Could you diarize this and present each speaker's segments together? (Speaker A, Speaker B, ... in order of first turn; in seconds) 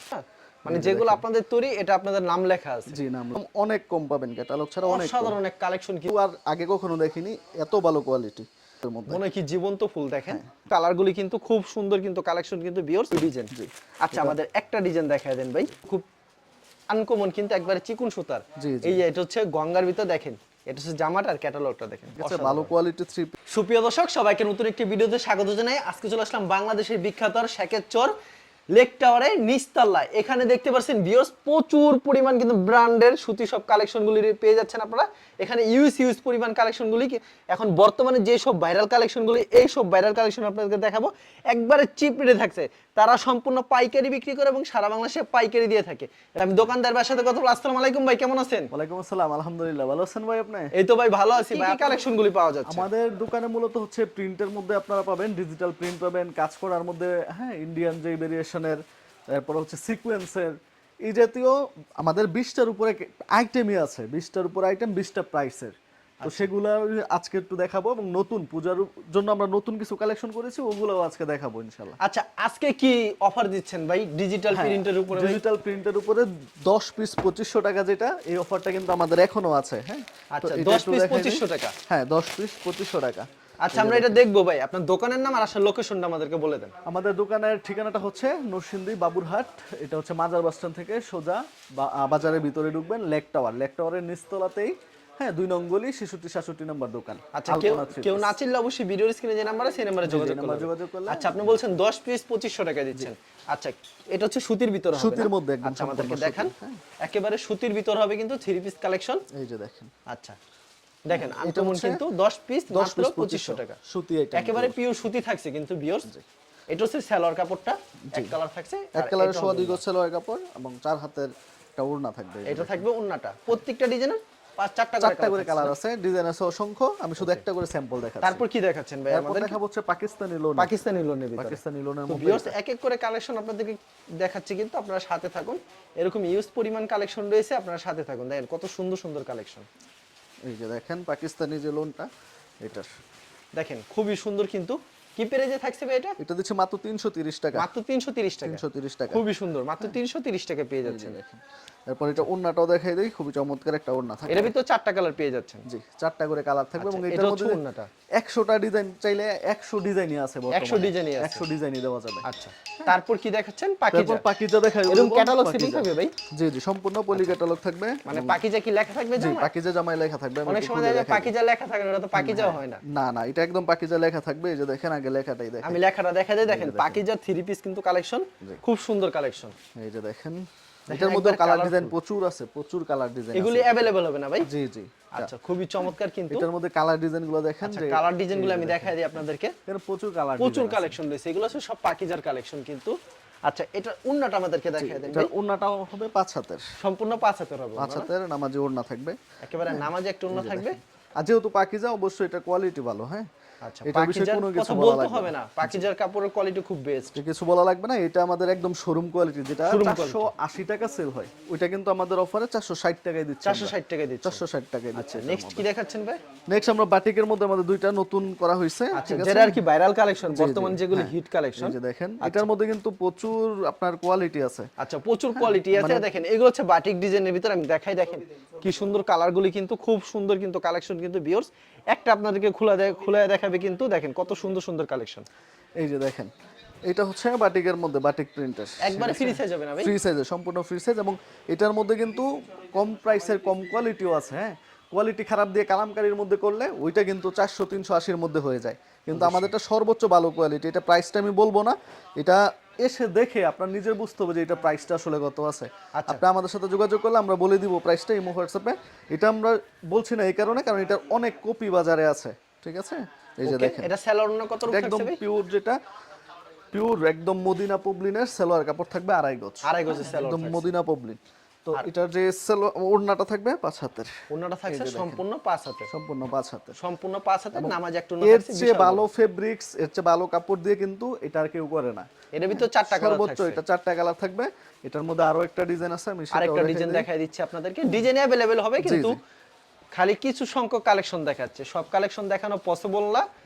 Speaker A: 0.1-3.0, 4.9-6.1, 9.1-13.5, 14.0-16.1, 16.9-22.7, 23.5-28.1, 28.7-48.7, 50.7-52.9, 66.2-66.5, 72.0-75.4, 80.3-81.8, 83.6-86.7, 97.3-106.5, 107.0-109.2, 110.1-110.4, 111.1-113.8, 114.3-116.1, 116.7-119.8, 122.5-125.8, 128.2-129.6, 130.6-139.7, 143.6-146.2, 147.6-151.2, 154.3-155.7, 156.8-157.9, 160.5-161.5, 162.2-164.2, 164.9-166.2, 168.1-169.5, 170.5-172.8, 175.6-179.6, 180.9-181.9, 183.3-184.5, 185.1-186.5, 187.6-189.5, 190.4-195.3, 196.8-198.1, 199.4-200.8, 203.6-207.2, 209.7-210.3, 213.4-214.4, 215.0-216.2, 218.9-222.5, 224.8-235.2, 238.8-239.9, 249.1-249.5, 255.9-256.2, 263.4-265.2, 269.6-270.7, 274.3-275.9, 276.8-279.1, 282.4-283.6, 286.3-289.2, 289.9-293.3
Speaker B: 0.7-1.2, 2.9-5.4, 6.1-9.2, 13.5-14.3, 18.6-19.0, 22.1-23.4, 48.7-50.7, 51.4-52.1, 52.7-72.0, 74.5-84.2, 86.9-98.4, 100.0-101.6, 104.9-106.8, 109.3-109.9, 111.1-112.0, 112.7-114.8, 119.0-122.8, 125.0-128.4, 129.1-130.8, 131.4-132.6, 140.5-142.1, 142.6-142.9, 146.2-147.7, 148.4-149.2, 150.8-154.5, 155.7-157.6, 158.2-162.3, 163.9-168.4, 169.2-171.3, 172.2-175.8, 176.4-177.0, 179.8-183.9, 184.5-185.3, 186.3-189.1, 189.7-191.0, 194.8-196.6, 197.8-203.3, 203.8-205.9, 207.2-215.7, 216.5-219.6, 220.3-224.7, 225.3-226.1, 235.8-236.3, 236.8-263.9, 264.6-265.8, 266.7-274.1, 274.7-275.2, 275.9-276.8, 277.5-287.1, 288.8-289.2